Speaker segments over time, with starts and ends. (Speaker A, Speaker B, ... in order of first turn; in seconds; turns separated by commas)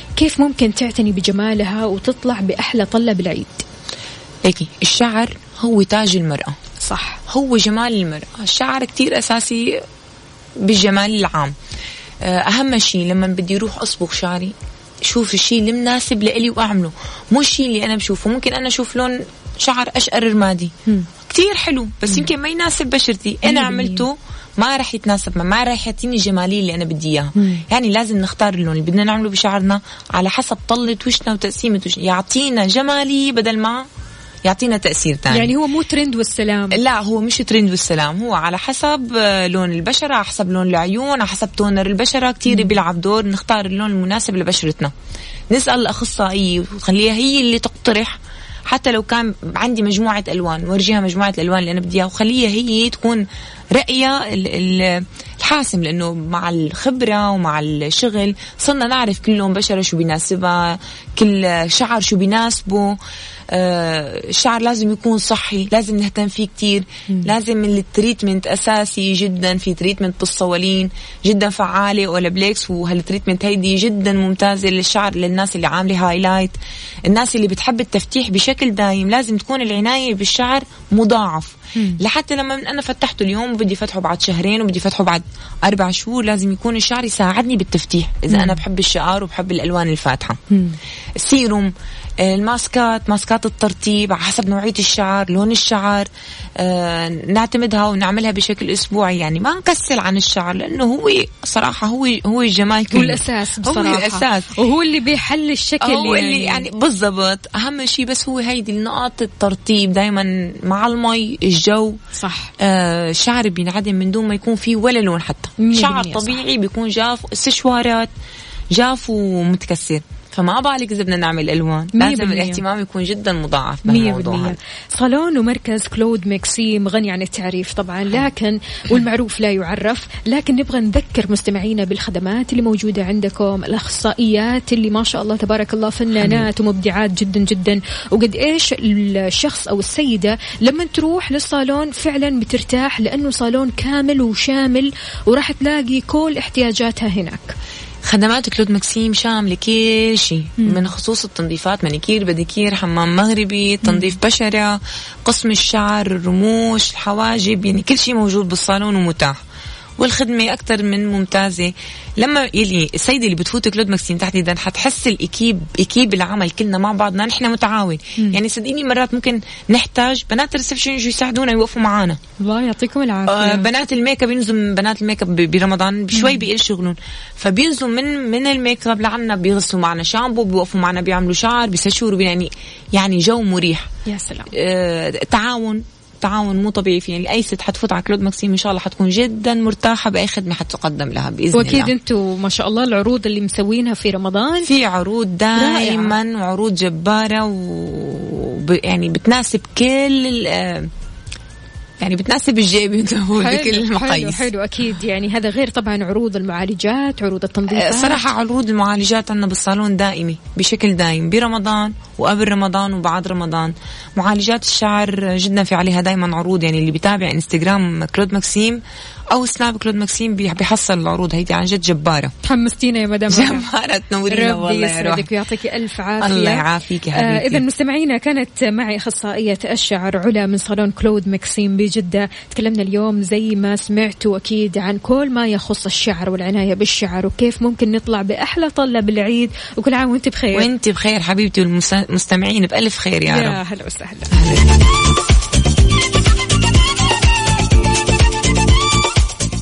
Speaker A: 0.2-3.6, Speaker B: 4.5-6.6, Speaker A: 6.8-7.2, Speaker B: 7.3-9.8, Speaker B: 10.6-11.6, Speaker B: 12.2-14.5, Speaker B: 15.1-33.9, Speaker A: 23.4-24.1, Speaker A: 27.4-27.6, Speaker B: 34.4-35.5, Speaker A: 35.3-36.8, Speaker B: 36.7-44.9, Speaker A: 42.5-42.8, Speaker B: 45.5-63.0, Speaker B: 63.5-76.6, Speaker B: 77.1-90.4, Speaker A: 88.3-88.6, Speaker A: 90.5-90.8, Speaker B: 91.2-104.5, Speaker A: 102.9-106.7, Speaker B: 105.8-112.0, Speaker A: 112.1-112.5, Speaker B: 112.6-118.1, Speaker A: 115.6-116.4, Speaker B: 118.7-124.6, Speaker A: 122.0-122.6, Speaker A: 123.9-147.6, Speaker B: 148.1-159.4, Speaker A: 153.8-154.1, Speaker B: 160.0-172.2, Speaker A: 172.4-173.7, Speaker B: 173.3-183.9, Speaker A: 176.1-176.4, Speaker A: 184.1-184.5, Speaker B: 184.5-191.9, Speaker A: 191.5-194.7, Speaker B: 194.6-200.9, Speaker A: 195.6-196.2, Speaker B: 202.0-204.4, Speaker A: 203.4-208.2, Speaker B: 207.7-222.3, Speaker A: 222.4-223.7, Speaker B: 223.3-225.3, Speaker A: 224.3-226.6, Speaker B: 226.2-227.6, Speaker A: 227.2-240.7, Speaker B: 240.5-243.6, Speaker A: 243.3-244.3, Speaker B: 244.3-244.7